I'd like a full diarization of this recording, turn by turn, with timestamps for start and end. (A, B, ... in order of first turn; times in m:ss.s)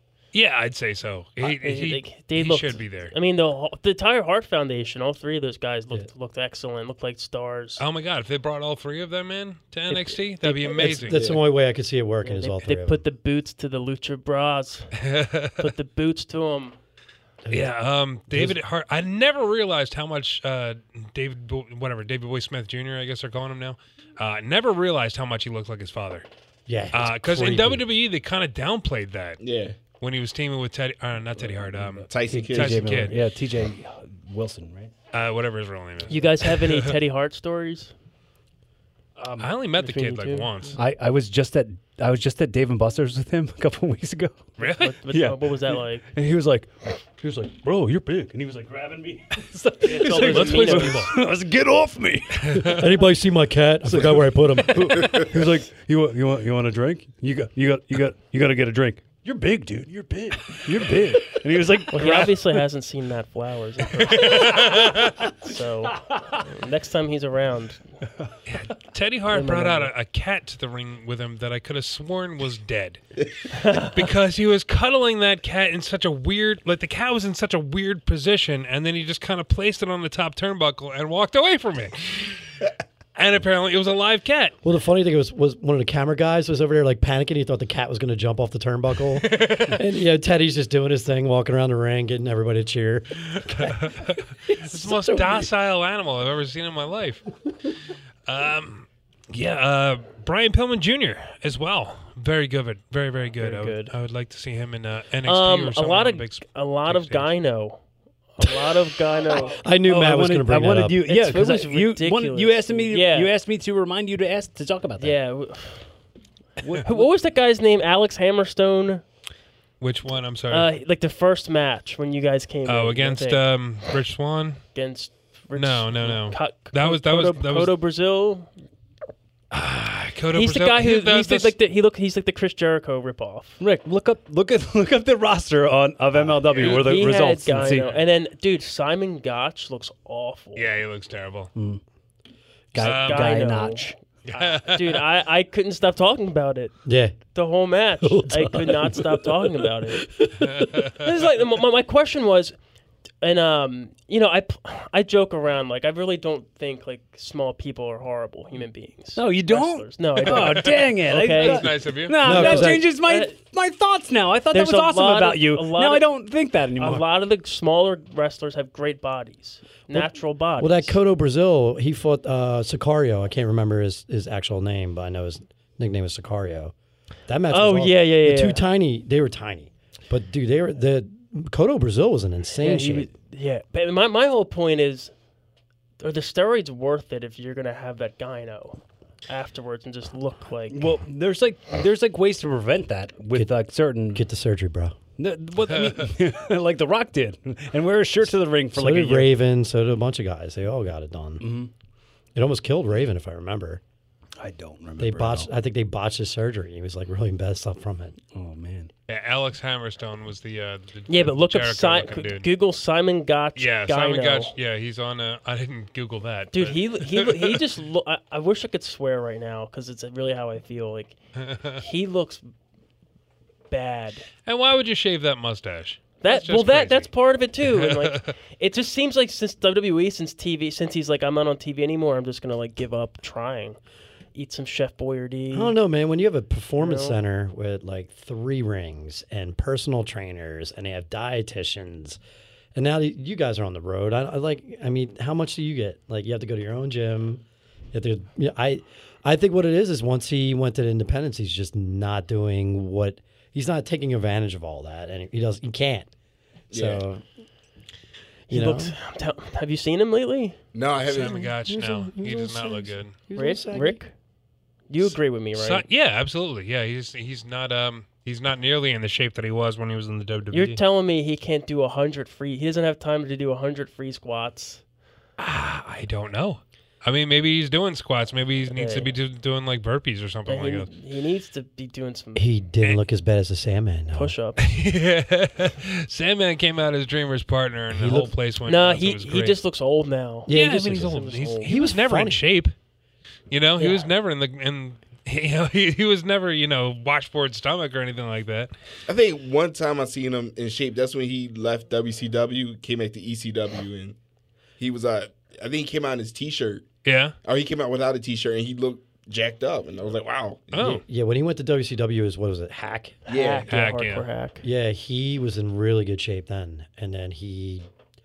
0:00.3-0:03.1 A
0:01.4-0:07.8 B
0:07.8-0:11.2 A
0:09.9-0:10.9 B
0:10.7-0:13.0 C
0:11.1-0:11.4 D
0:12.2-0:14.9 B
0:15.0-0:15.7 A
0:15.6-0:16.8 B
0:17.4-0:17.7 C
0:17.5-0:26.2 A
0:18.3-0:18.6 C
0:26.7-0:27.8 C
0:26.9-0:29.4 A
0:29.4-0:29.8 D
0:30.0-0:33.2 A
0:31.4-0:34.9 E
0:32.1-0:33.1 D
0:35.1-0:36.9 A
0:36.1-0:37.9 B
0:39.2-0:39.5 E
0:39.4-0:40.8 A
0:39.8-0:40.5 B
0:40.8-0:52.8 E
0:44.6-0:44.9 A
0:44.6-0:46.0 B
0:49.8-0:51.1 B
0:50.0-0:51.1 A
0:52.5-0:52.8 A
0:52.6-0:55.3 C
0:53.8-1:02.6 E
1:01.9-1:04.8 B
1:04.0-1:05.3 E
1:04.1-1:05.2 A
1:05.4-1:07.9 B
1:05.9-1:06.4 E
1:08.5-1:13.0 A
1:09.3-1:09.9 B
1:13.5-1:14.0 B
1:13.7-1:22.4 A
1:23.1-1:24.6 A
1:24.6-1:35.5 C
1:29.2-1:29.8 A
1:33.5-1:37.3 A
1:38.2-1:47.3 A
1:43.4-1:43.9 B
1:45.2-1:47.8 B
1:48.3-1:49.6 B
1:49.3-1:51.0 C
1:49.8-1:55.2 E
1:51.0-1:53.3 B
1:55.0-1:55.9 B
1:56.6-1:57.1 E
1:56.8-1:59.0 B
1:59.8-2:00.7 A
2:00.5-2:03.4 B
2:02.6-2:04.6 A
2:04.7-2:08.5 B
2:05.5-2:07.7 A
2:09.5-2:11.5 A
2:10.3-2:13.6 B
2:13.6-2:17.9 E
2:16.5-2:16.9 A
2:16.5-2:20.6 B
2:20.6-2:21.5 A
2:21.5-2:21.8 E
2:22.7-2:24.0 E
2:22.8-2:23.4 A
2:22.8-2:30.1 B
2:24.2-2:25.0 A
2:26.8-2:27.2 C
2:28.0-2:30.9 C
2:30.4-2:31.0 A
2:30.9-2:32.5 B
2:33.2-2:41.7 B
2:39.1-2:47.0 E
2:40.3-2:42.4 A
2:42.2-2:42.9 C
2:42.2-2:43.3 B
2:44.5-2:46.1 B
2:46.8-2:51.0 B
2:49.9-2:56.7 C
2:57.3-3:03.1 C
2:57.5-2:58.6 B
3:02.6-3:05.1 B
3:06.0-3:10.9 B
3:10.7-3:14.2 E
3:14.1-3:15.0 C
3:15.2-3:19.3 E
3:18.7-3:21.5 C
3:21.4-3:21.7 E
3:22.3-3:23.8 C
3:24.4-3:25.5 E
3:25.0-3:28.2 C
3:28.3-3:28.9 E
3:29.1-3:32.5 A
3:31.1-3:34.5 B
3:33.6-3:37.6 A
3:36.5-3:41.2 B
3:41.4-3:41.8 A
3:41.7-3:42.4 B
3:43.7-3:44.2 B
3:44.4-3:48.3 A
3:46.2-3:53.8 B
3:54.3-3:55.8 B
3:55.5-4:02.2 C
3:56.8-3:57.2 B
4:02.7-4:16.1 C
4:16.7-4:17.0 D
4:16.7-4:17.2 C
4:18.5-4:20.6 B
4:18.5-4:18.9 C
4:20.7-4:21.4 D
4:21.0-4:23.1 A
4:21.2-4:24.0 C
4:23.3-4:24.1 B
4:24.9-4:25.8 B
4:25.0-4:30.8 A
4:30.5-4:34.8 B
4:35.4-4:40.9 A
4:38.7-4:39.1 B
4:40.5-4:42.5 B
4:42.3-4:44.3 C
4:44.1-4:44.6 B
4:44.6-4:49.6 A
4:47.9-4:48.3 C
4:48.6-4:51.7 B
4:50.5-4:52.4 C
4:50.5-4:52.7 A
4:53.5-4:58.7 A
4:53.8-4:54.0 B
4:59.1-5:04.2 D
5:04.8-5:06.8 D
5:07.0-5:07.3 A
5:07.4-5:10.9 D
5:10.7-5:11.0 A
5:10.8-5:13.2 C
5:13.3-5:13.7 D
5:13.3-5:14.6 B
5:13.7-5:14.2 A
5:14.6-5:17.8 C